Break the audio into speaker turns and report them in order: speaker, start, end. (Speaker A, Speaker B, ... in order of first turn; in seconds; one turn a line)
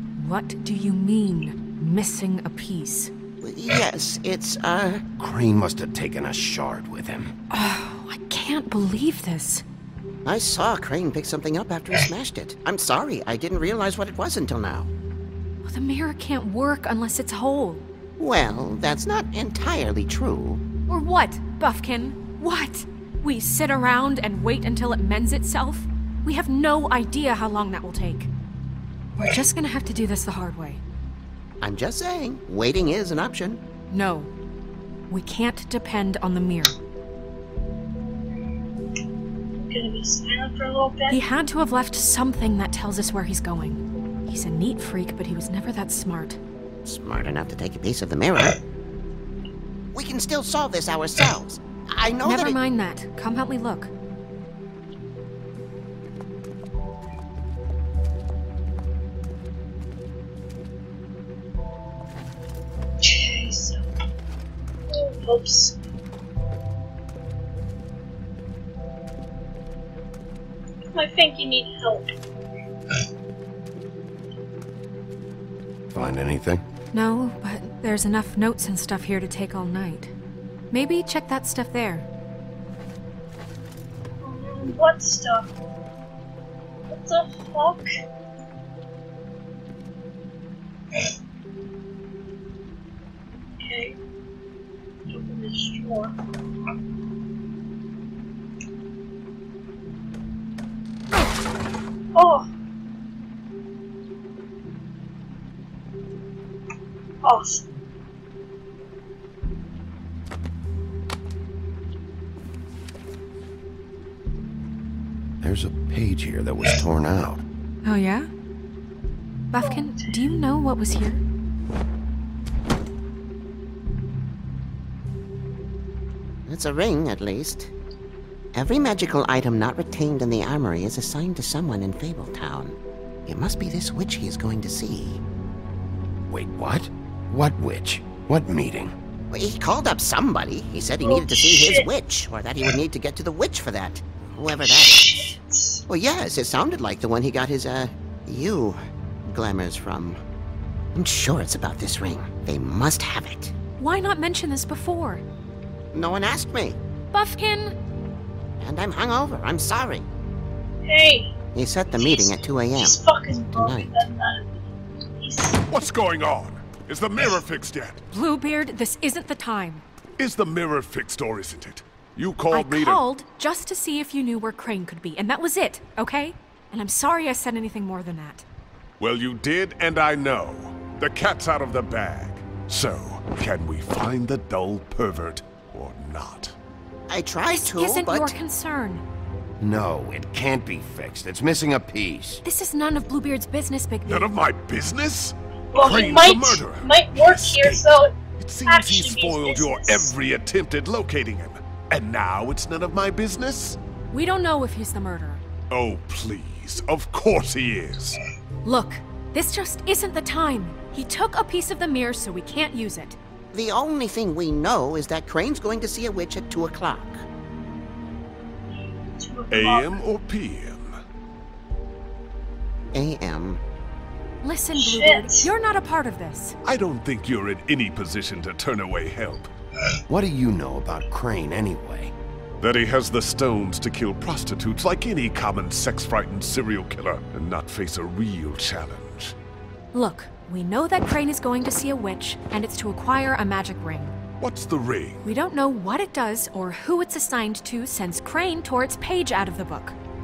Speaker A: 0.2-3.1
Speaker B: 3.4-5.1
Speaker C: 5.2-7.3
Speaker A: 7.5-9.6
Speaker B: 10.2-14.9
Speaker A: 15.6-17.9
Speaker B: 18.2-20.6
Speaker A: 20.9-28.3
Speaker A: 29.2-30.8
Speaker B: 31.6-33.6
Speaker A: 33.9-34.3
Speaker A: 35.1-36.8
Speaker D: 39.6-41.2
Speaker A: 41.1-46.4
Speaker B: 46.8-48.6
Speaker B: 49.9-52.6
Speaker A: 52.2-53.9
Speaker D: 63.0-63.8
Speaker D: 64.9-65.8
Speaker D: 70.9-72.1
Speaker C: 75.9-76.6
Speaker A: 76.9-80.1
Speaker A: 80.7-82.1
Speaker D: 84.2-85.5
Speaker D: 86.9-87.8
Speaker D: 93.6-94.0
Speaker D: 95.1-96.2
Speaker D: 102.1-102.5
Speaker D: 107.2-107.7
Speaker C: 115.4-117.4
Speaker A: 117.8-118.3
Speaker A: 119.5-121.2
Speaker D: 119.6-120.1
Speaker B: 126.5-127.7
Speaker B: 128.5-135.2
Speaker C: 136.3-138.9
Speaker B: 139.3-145.3
Speaker D: 141.0-141.9
Speaker D: 144.6-145.8
Speaker B: 145.9-150.2
Speaker B: 150.9-153.5
Speaker A: 153.8-155.2
Speaker B: 155.9-156.8
Speaker A: 157.1-157.8
Speaker B: 158.6-160.1
Speaker D: 160.8-161.3
Speaker B: 161.5-163.0
Speaker D: 161.9-164.5
Speaker B: 163.5-163.9
Speaker D: 165.2-165.6
Speaker E: 165.7-168.0
Speaker A: 168.1-169.8
Speaker E: 170.2-173.0
Speaker A: 172.5-178.4
Speaker E: 179.0-186.5
Speaker B: 187.1-188.3
Speaker A: 187.5-189.0
Speaker C: 189.6-192.4
Speaker A: 192.4-194.3
Speaker E: 194.1-197.8
Speaker D: 195.7-198.1
Speaker E: 198.4-203.8
Speaker D: 198.7-200.1
Speaker A: 204.1-205.4
Speaker E: 205.7-208.2
Speaker A: 208.6-213.2
Speaker B: 213.5-217.2
Speaker D: 219.2-220.0
Speaker E: 219.5-221.0
Speaker B: 222.9-223.6
Speaker A: 224.4-226.6
Speaker D: 224.7-225.5
Speaker E: 226.6-229.5
Speaker C: 230.1-232.1
Speaker E: 232.6-239.3
Speaker A: 239.9-244.2
Speaker E: 244.4-245.2
Speaker A: 245.2-249.9